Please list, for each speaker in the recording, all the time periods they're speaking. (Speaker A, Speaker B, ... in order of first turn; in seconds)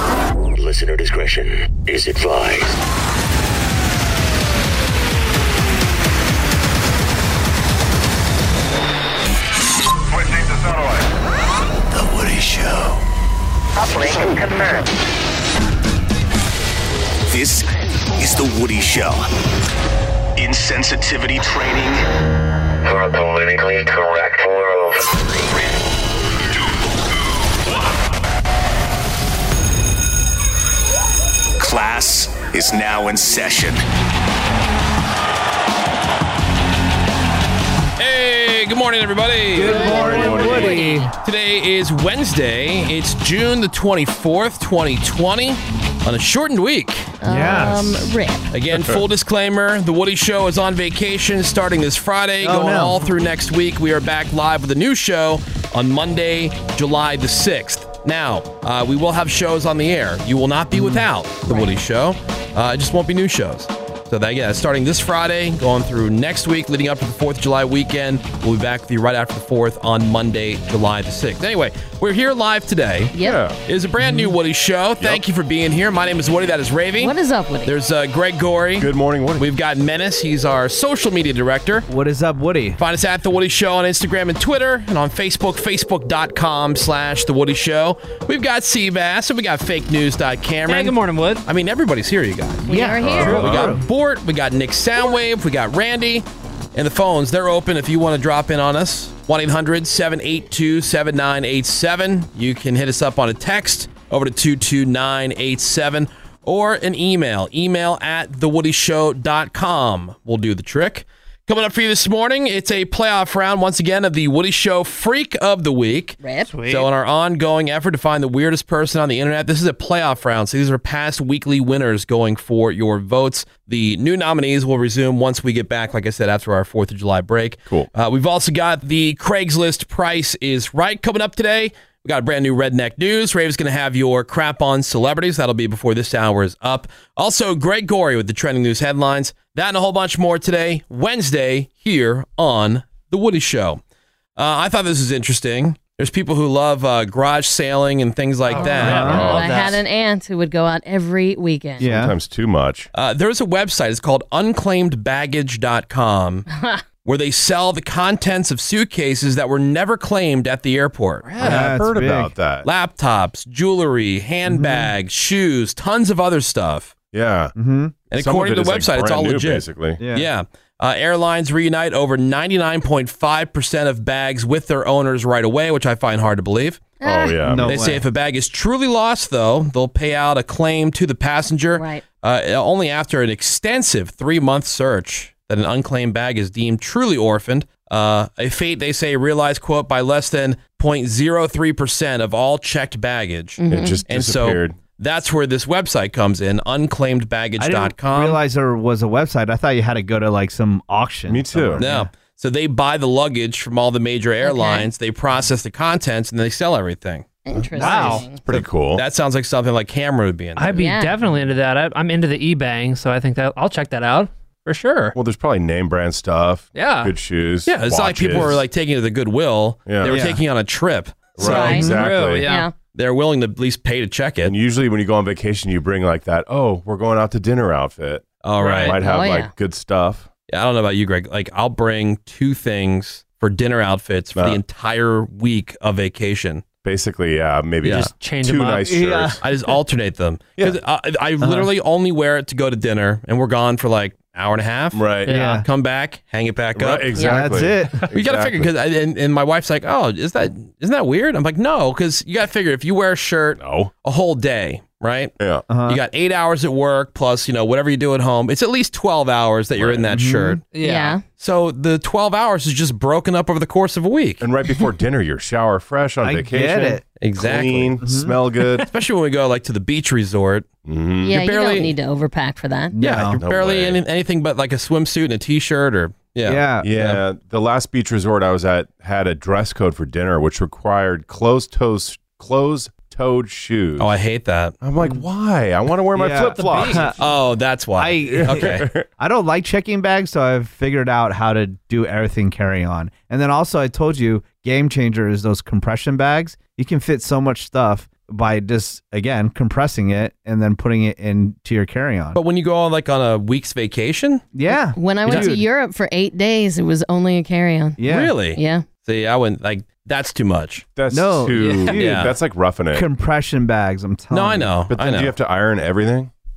Speaker A: 0.6-2.8, 10.2-10.8, 11.9-13.0, 17.3-19.3, 20.4-22.0, 31.6-33.8
Speaker B: 22.8-25.0
Speaker C: 38.0-47.1, 48.5-81.9, 82.8-143.8, 144.4-149.1, 152.9-156.5, 157.1-161.7, 162.6-166.9, 168.1-176.9, 177.6-198.4, 201.8-207.3, 208.5-210.8, 217.7-221.5, 222.9-224.5, 228.4-229.0, 230.5-236.6, 239.4-247.1, 248.1-255.3, 255.9-260.6, 261.4-264.4, 267.2-268.0, 268.8-270.7, 271.3-271.9, 273.0-277.2, 284.0-284.8, 287.2-288.9, 302.3-304.4, 305.3-305.6, 308.1-310.9, 311.9-312.3, 314.3-315.3
Speaker D: 39.5-41.1, 47.3-48.0, 52.4-53.1, 60.7-61.1, 74.0-74.3, 81.9-82.8, 92.7-93.8, 148.8-149.3, 151.8-152.1, 161.4-162.3, 164.5-164.9, 167.6-167.9, 170.0-170.3, 177.4-178.0, 197.6-202.1, 207.8-208.2, 220.0-220.4, 221.4-222.1, 238.8-239.4, 241.4-241.7, 245.3-245.7, 247.2-248.0, 255.7-256.0, 260.1-260.6, 266.2-267.0, 268.0-268.4, 272.9-273.4, 276.5-276.9, 286.1-287.2, 288.0-302.4, 304.5-305.7, 308.0-308.3, 311.1-312.4, 312.9-314.7
Speaker E: 39.7-41.0, 47.2-48.5, 73.1-73.4, 77.0-77.7, 92.7-93.4, 116.2-116.5, 148.5-151.9, 156.5-156.8, 177.0-177.4, 181.8-182.0, 193.6-194.0, 204.4-204.9, 207.4-208.4, 210.8-211.2, 221.5-221.9, 222.4-222.7, 228.9-229.5, 247.2-247.4, 260.8-261.2, 271.2-272.9, 304.9-308.0, 308.5-308.8
Speaker F: 39.8-40.8, 48.7-49.0, 73.2-73.6, 75.0-75.2, 78.8-79.5, 93.1-93.8, 149.1-149.6, 151.8-152.9, 161.3-162.7, 167.1-167.6, 168.1-170.0, 177.0-177.8, 193.7-194.8, 201.3-201.8, 207.8-209.0, 215.2-218.7, 219.9-220.2, 221.4-222.5, 224.4-230.3, 234.4-234.6, 236.8-239.4, 244.9-245.3, 246.8-248.7, 253.6-253.9, 255.4-255.7, 259.8-260.1, 264.4-268.9, 270.9-271.4, 273.3-274.0, 276.8-284.1, 284.8-287.1, 288.3-289.1, 310.9-313.1, 314.9-316.3
Speaker G: 90.7-91.4, 116.5-116.9, 148.5-149.8, 207.8-208.2, 210.6-215.2, 216.8-217.1, 221.4-222.7, 228.6-229.0, 237.9-239.0, 245.3-245.6, 260.7-261.2, 286.5-287.1, 311.6-312.0